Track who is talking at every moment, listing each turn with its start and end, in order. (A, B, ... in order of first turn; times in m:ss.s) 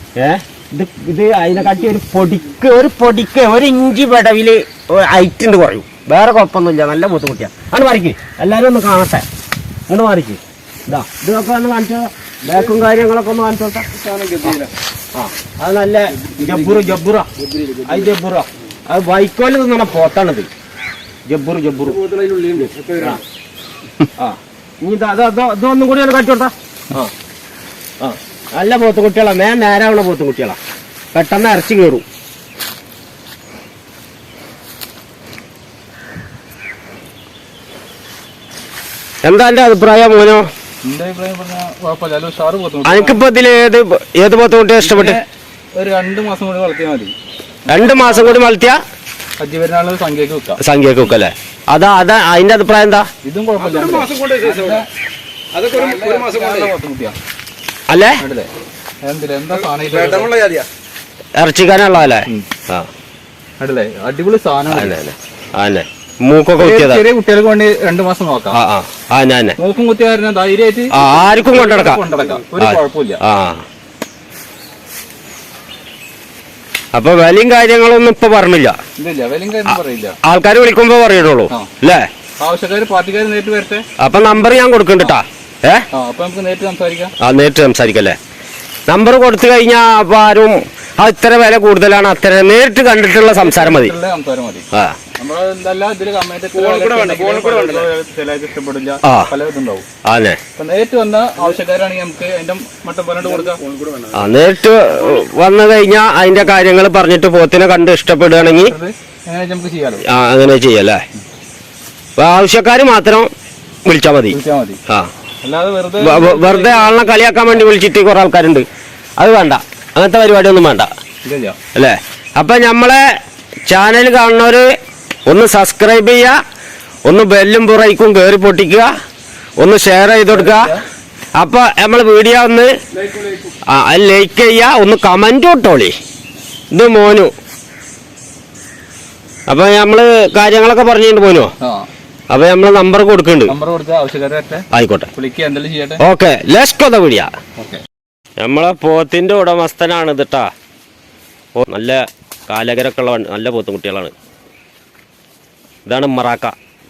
0:00.2-0:09.2 A
0:09.9-0:13.9 A
0:12.5-0:12.7 B
0:13.9-0:14.7 B
0:15.2-0:17.3 A
0:16.2-0:18.2 B
0:17.9-0:20.5 A
0:21.3-0:22.0 A
0:21.9-0:23.2 B
0:24.2-0:27.1 A
0:28.0-0:30.6 A
0:31.1-0:32.0 A
0:39.2-0:40.5 A
0:40.8-0:43.2 C
0:42.8-0:45.2 A
0:44.8-0:47.1 C
0:47.7-0:48.4 C
0:47.7-0:48.8 A
0:49.4-0:50.6 C
0:50.6-0:53.1 A
0:53.2-0:54.9 C
0:53.6-0:54.9 B
0:55.5-0:56.7 B
0:55.7-0:57.2 C
0:57.9-0:58.2 A
0:58.2-0:58.5 C
0:59.0-1:00.4 C
0:59.6-1:00.7 B
1:01.4-1:02.9 A
1:03.6-1:05.0 C
1:04.7-1:07.1 A
1:06.6-1:08.6 C
1:08.5-1:09.6 A
1:09.6-1:13.2 C
1:10.9-1:12.0 A
1:12.6-1:13.6 A
1:17.0-1:18.8 A
1:19.0-1:20.2 C
1:20.2-1:22.1 A
1:21.5-1:21.8 C
1:22.4-1:23.8 C
1:24.0-1:25.9 A
1:25.9-1:27.1 C
1:27.2-1:28.2 A
1:28.9-1:33.9 A
1:33.4-1:39.9 C
1:34.7-1:35.0 A
1:36.5-1:37.9 B
1:39.0-1:39.3 A
1:40.0-1:40.4 A
1:40.6-1:43.6 C
1:43.3-1:44.3 B
1:44.1-1:48.8 A
1:48.6-1:50.0 C
1:50.0-1:51.0 A
1:52.2-1:53.3 A
1:53.8-1:55.1 A
1:54.3-1:54.8 C
1:55.4-1:57.6 C
1:56.0-1:58.7 A
1:59.2-2:00.9 A
2:01.2-2:01.6 C
2:01.8-2:04.7 A
2:05.3-2:06.4 A
2:07.1-2:08.9 A
2:09.6-2:10.8 A
2:10.3-2:10.8 C
2:11.4-2:12.7 A
2:13.0-2:13.5 B
2:13.7-2:16.0 A
2:16.7-2:17.3 A
2:19.5-2:21.5 A
2:21.6-2:21.9 C
2:22.3-2:23.6 A
2:23.5-2:26.0 C
2:24.7-2:25.1 A
2:26.0-2:27.3 A
2:27.6-2:27.8 C
2:28.4-2:30.5 A
2:31.6-2:34.1 A
2:35.9-2:36.5 A